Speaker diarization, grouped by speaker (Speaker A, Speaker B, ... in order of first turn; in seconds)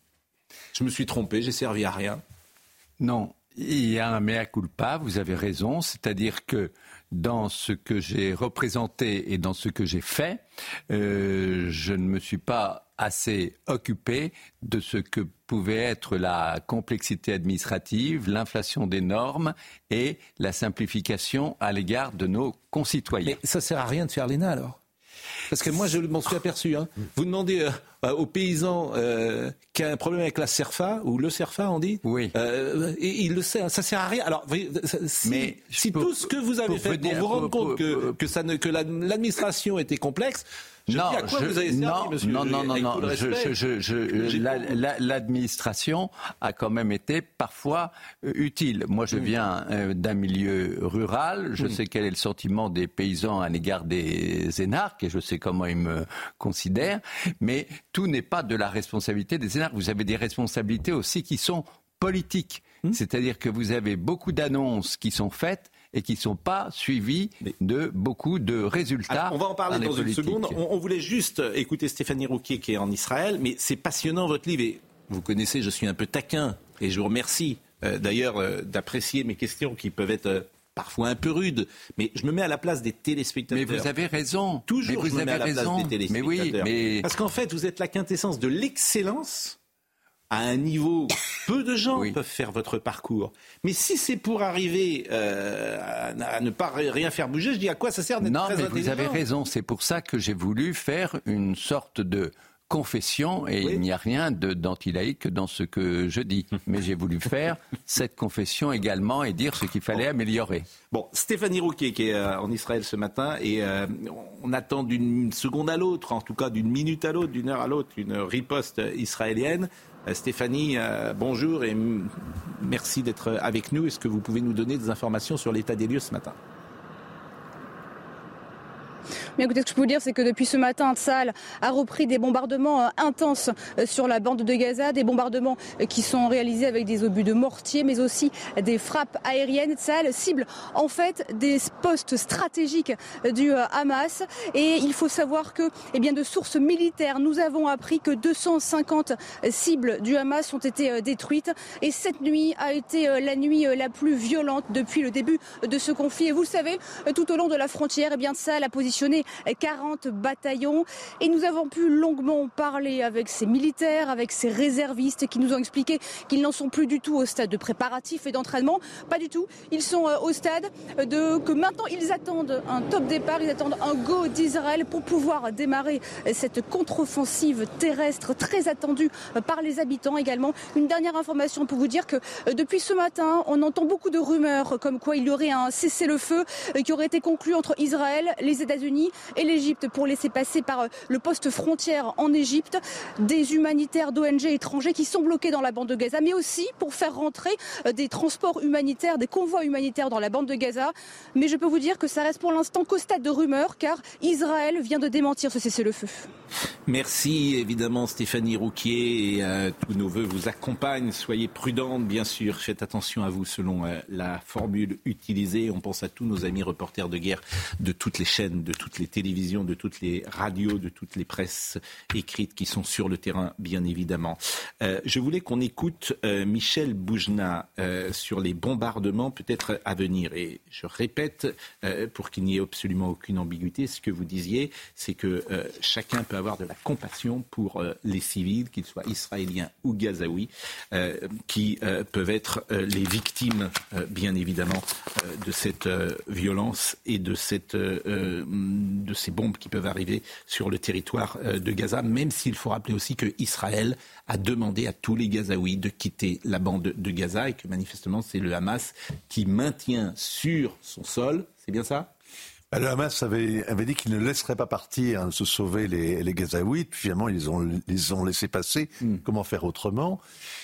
Speaker A: 0.7-2.2, 23.2-24.8, 25.5-43.6, 44.1-44.8, 69.1-83.9, 84.6-89.5, 90.3-99.2, 110.9-126.3, 206.9-262.1
Speaker B: 3.0-23.4, 32.0-32.3, 35.2-38.1, 40.9-70.6, 83.5-87.0, 98.2-110.7
Speaker C: 129.4-206.3
Speaker D: 262.7-270.2